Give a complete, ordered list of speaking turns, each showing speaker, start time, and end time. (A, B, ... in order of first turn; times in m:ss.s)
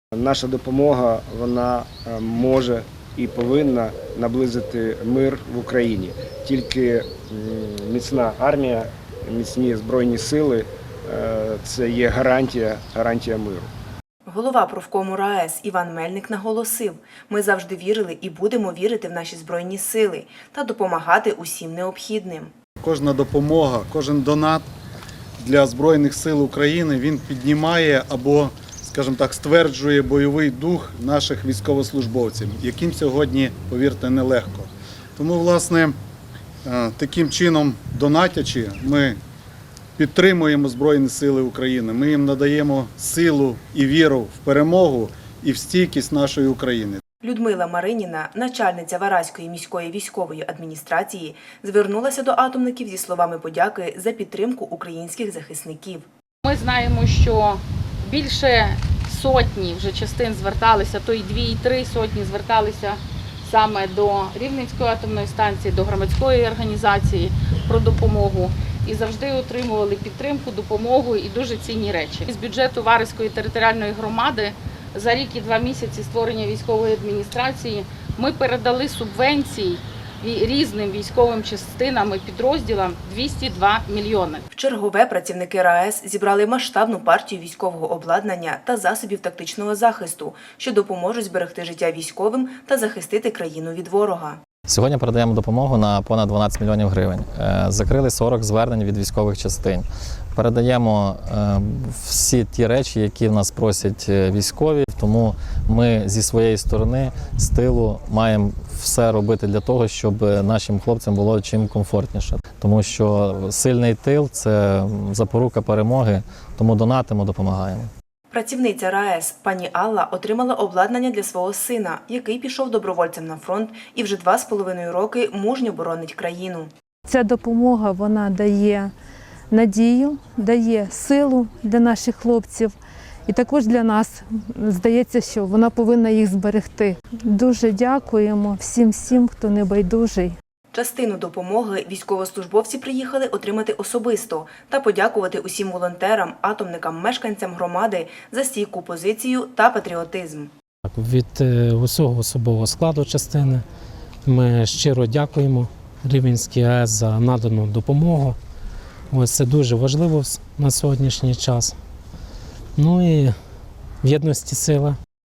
0:00.1-0:13.7 A
0:14.3-0:22.5 B
0:22.8-0:24.7 C
0:25.4-0:36.0 C
0:36.6-0:39.2 C
0:40.0-0:47.0 C
0:47.2-0:56.0 B
0:56.4-1:24.4 D
1:24.5-1:34.4 B
1:34.7-1:57.9 E
1:58.3-2:06.7 B
2:07.1-2:08.9 F
2:09.5-2:20.4 F
2:20.7-2:30.5 B
2:30.9-2:33.6 G
2:34.2-2:38.4 G
2:39.1-2:41.8 G
2:42.8-2:43.4 G
2:44.0-2:45.0 G